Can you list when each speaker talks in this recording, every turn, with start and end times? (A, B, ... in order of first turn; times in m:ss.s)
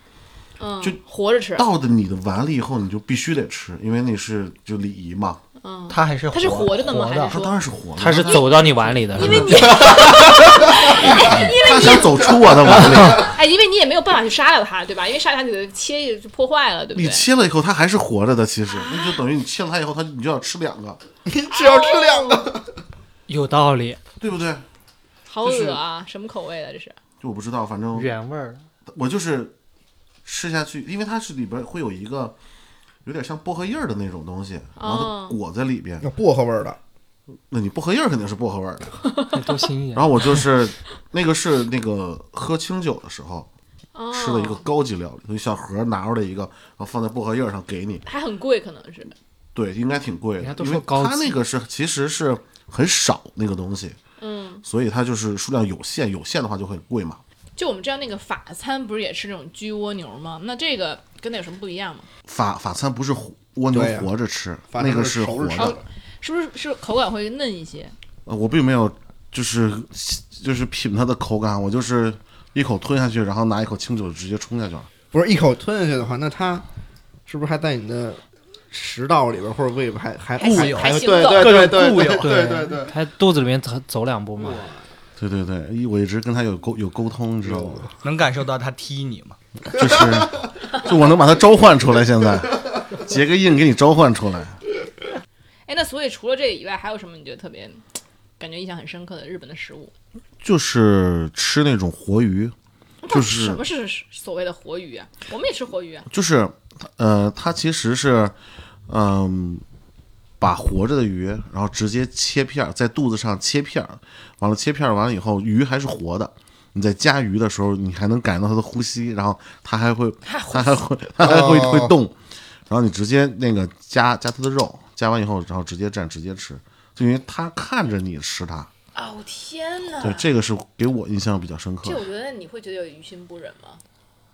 0:00.6-0:01.7 A
0:01.6-0:05.4 B
0:05.6-0:07.6 A
0:05.9-0:07.4 C
0:07.3-0:13.3 B
0:08.0-0:09.8 D
0:08.3-0:08.6 A
0:09.1-0:17.3 A
0:12.8-0:13.2 D
0:16.9-0:21.0 B
0:18.7-0:19.2 A
0:21.2-0:22.7 E
0:21.5-0:22.5 A
0:23.3-0:24.0 D
0:24.2-0:24.6 B
0:25.3-0:27.0 A
0:25.4-0:25.8 E
0:27.2-0:28.1 B
0:27.9-0:28.7 D
0:28.9-0:29.5 B
0:30.2-0:32.3 B
0:33.0-0:36.0 B
0:34.8-0:35.4 A
0:36.0-0:36.8 E
0:37.5-0:39.0 B
0:39.3-0:40.4 D
0:39.9-0:43.5 B
0:43.9-0:44.6 A
0:44.1-0:48.0 B
0:48.0-0:49.1 A
0:49.5-0:54.0 B
0:50.4-0:51.4 D
0:54.2-0:54.6 A
0:54.6-0:57.2 B
0:57.6-1:02.1 A
1:02.2-1:05.8 B
1:03.7-1:04.1 E
1:04.7-1:05.8 E
1:05.6-1:07.9 A
1:08.2-1:14.9 B
1:15.1-1:16.6 E
1:17.3-1:22.9 E
1:20.4-1:21.7 A
1:20.4-1:22.5 C
1:22.2-1:24.7 D
1:24.4-1:24.7 E
1:25.2-1:27.9 B
1:27.4-1:27.9 E
1:28.0-1:29.4 C
1:29.7-1:34.6 B
1:35.7-1:37.8 A
1:38.4-1:39.9 A
1:40.4-1:42.5 B
1:43.0-1:46.1 A
1:43.1-1:43.6 B
1:46.1-1:48.3 B
1:48.9-1:49.6 B
1:50.4-2:02.2 B
2:00.2-2:00.8 A
2:01.2-2:01.9 E
2:02.7-2:08.7 B
2:08.9-2:10.3 A
2:10.0-2:12.0 B
2:11.8-2:13.8 A